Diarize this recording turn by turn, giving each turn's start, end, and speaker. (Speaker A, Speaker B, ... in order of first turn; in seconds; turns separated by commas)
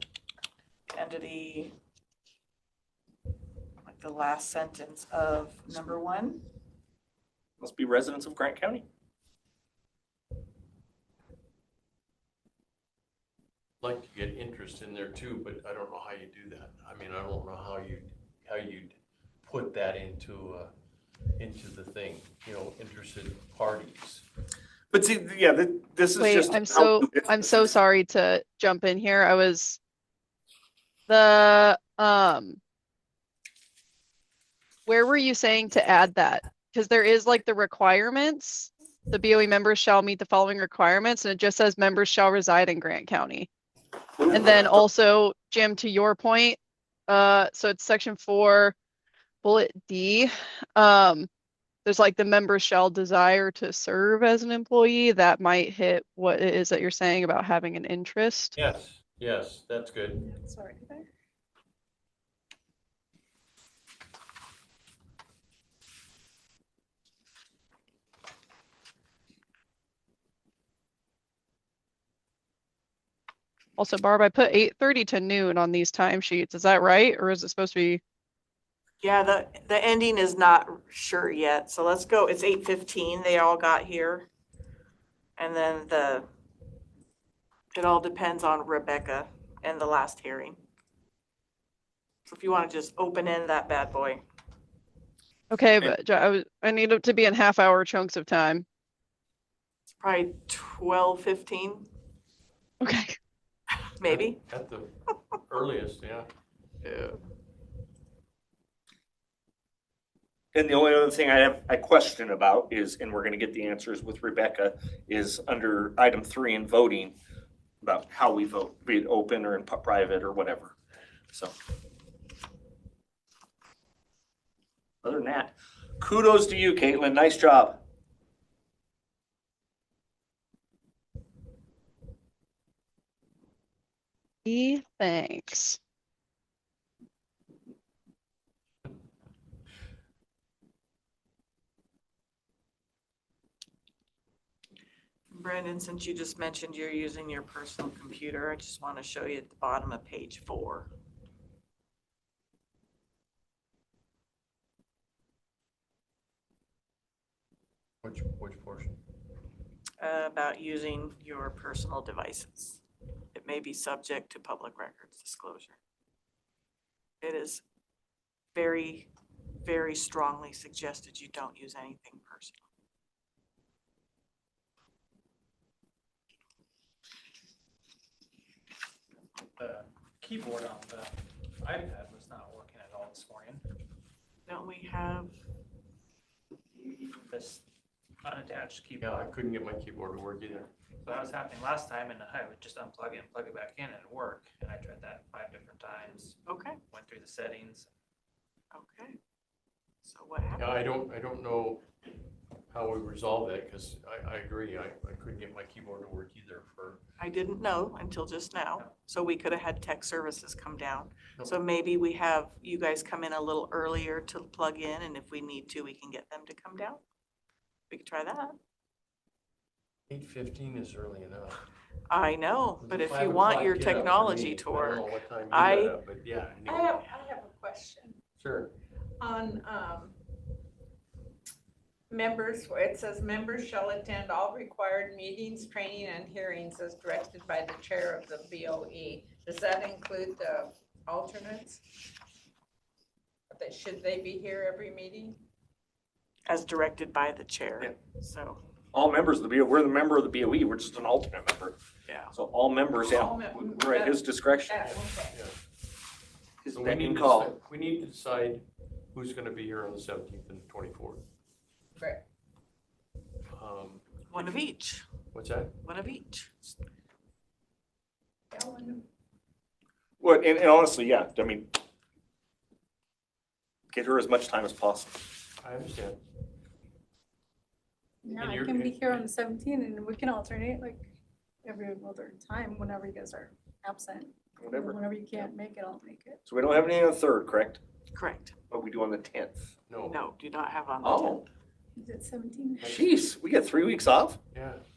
Speaker A: 0.9-1.7, Speaker A: 3.9-6.4, Speaker B: 7.6-8.8, Speaker C: 13.8-20.7, Speaker C: 21.4-24.2, Speaker B: 24.9-27.7, Speaker D: 26.1-29.8, Speaker D: 31.1-32.6, Speaker D: 34.9-43.5, Speaker B: 44.2-44.8, Speaker D: 44.3-48.8, Speaker D: 49.4-51.3, Speaker D: 51.8-58.5, Speaker C: 58.5-60.2, Speaker E: 60.1-61.1, Speaker D: 73.8-78.0, Speaker A: 79.0-84.3, Speaker A: 85.4-86.3, Speaker A: 87.7-90.6, Speaker A: 92.3-94.2, Speaker D: 95.5-98.6, Speaker A: 100.0-101.9, Speaker D: 102.8-103.2, Speaker A: 104.0-104.4, Speaker C: 104.1-106.3, Speaker A: 106.8-107.2, Speaker B: 110.5-117.1, Speaker B: 117.8-120.7, Speaker B: 125.0-127.8, Speaker D: 134.4-135.8, Speaker A: 145.3-150.9, Speaker C: 158.0-159.0, Speaker A: 160.0-162.8, Speaker A: 163.3-165.8, Speaker A: 167.2-167.6, Speaker A: 168.5-169.1, Speaker A: 169.6-172.6, Speaker F: 179.6-183.6, Speaker A: 184.4-185.4, Speaker F: 187.3-187.6, Speaker F: 188.2-189.3, Speaker C: 189.0-190.7, Speaker F: 191.0-196.4, Speaker A: 196.4-196.8, Speaker F: 196.9-197.9, Speaker A: 198.7-199.2, Speaker A: 200.0-200.6, Speaker C: 200.6-201.8, Speaker C: 202.7-207.0, Speaker A: 207.2-217.0, Speaker A: 217.9-218.6, Speaker C: 220.1-221.7, Speaker A: 222.1-225.9, Speaker C: 222.8-227.1, Speaker G: 226.6-228.2, Speaker C: 228.4-228.7, Speaker G: 229.2-230.2, Speaker G: 232.1-241.8, Speaker G: 243.5-245.4, Speaker A: 246.5-248.6, Speaker B: 248.9-251.8, Speaker A: 252.1-252.3, Speaker B: 252.3-254.8, Speaker G: 252.9-255.4, Speaker C: 254.8-255.6, Speaker B: 256.6-257.5, Speaker C: 256.7-261.2, Speaker G: 261.9-262.2, Speaker C: 263.5-264.0, Speaker A: 264.3-265.0, Speaker C: 265.3-265.8, Speaker A: 265.8-266.7, Speaker E: 268.5-269.0, Speaker B: 270.2-271.8, Speaker B: 273.9-275.3, Speaker C: 275.6-276.2, Speaker E: 278.2-281.1, Speaker C: 278.4-279.3, Speaker E: 281.6-286.4, Speaker B: 284.6-285.4, Speaker B: 286.4-287.8, Speaker A: 288.1-288.5, Speaker B: 288.7-289.7, Speaker C: 289.9-290.2, Speaker A: 290.1-291.4, Speaker B: 291.0-291.4, Speaker E: 292.0-293.0, Speaker C: 292.8-293.1, Speaker B: 292.8-294.4, Speaker C: 294.5-294.8